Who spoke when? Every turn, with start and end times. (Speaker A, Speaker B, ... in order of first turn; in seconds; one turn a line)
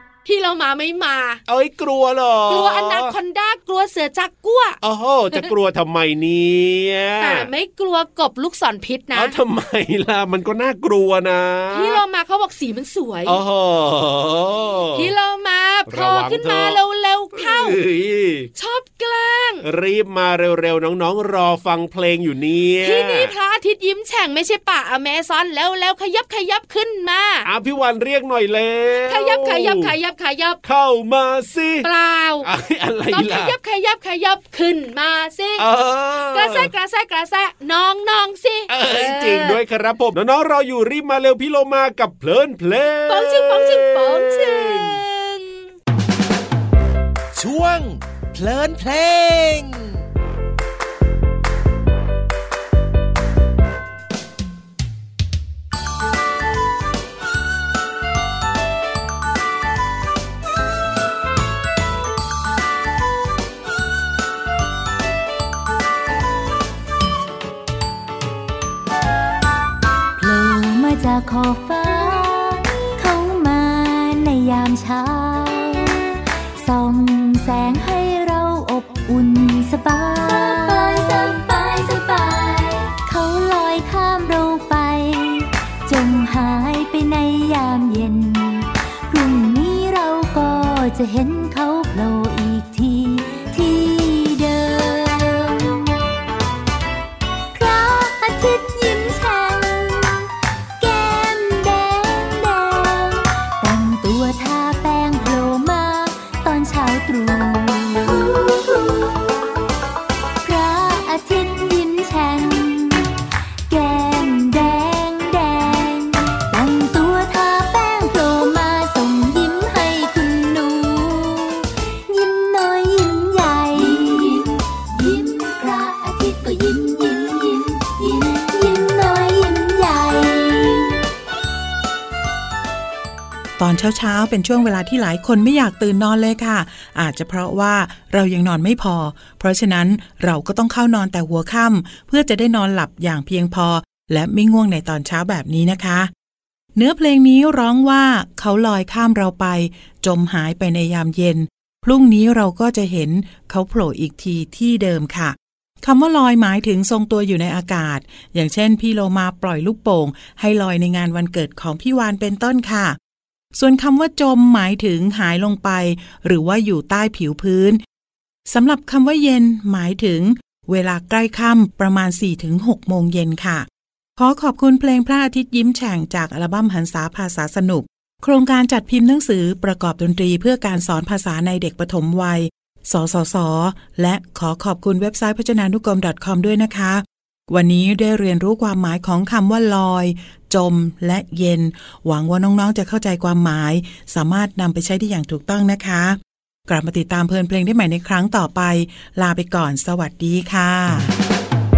Speaker A: 0.3-1.4
Speaker B: 1.5-3.1
Speaker A: 2.5-4.8
Speaker B: 4.8-7.5
Speaker A: 7.2-9.3
Speaker B: 9.1-12.0
Speaker A: 11.7-13.4
Speaker B: 13.3-15.1
Speaker A: 14.9-17.8
Speaker B: 15.9-16.8
Speaker B: 17.4-18.5
Speaker A: 18.6-19.6
Speaker B: 19.6-23.3
Speaker A: 22.8-27.5
Speaker B: 27.4-29.9
Speaker A: 29.1-30.6
Speaker B: 30.6-31.9
Speaker A: 31.8-32.5
Speaker B: 32.4-33.5
Speaker A: 33.1-35.6
Speaker B: 35.6-36.7
Speaker A: 36.3-39.6
Speaker B: 38.7-45.0
Speaker A: 43.1-45.7
Speaker C: 47.4-50.0
Speaker D: 70.2-95.9
Speaker D: 97.5-100.3
Speaker D: 100.8-109.2
Speaker D: 110.4-113.1
Speaker D: 113.7-131.0
Speaker E: 133.6-146.1
Speaker E: 146.8-163.0
Speaker E: 163.6-167.8
Speaker E: 168.5-201.1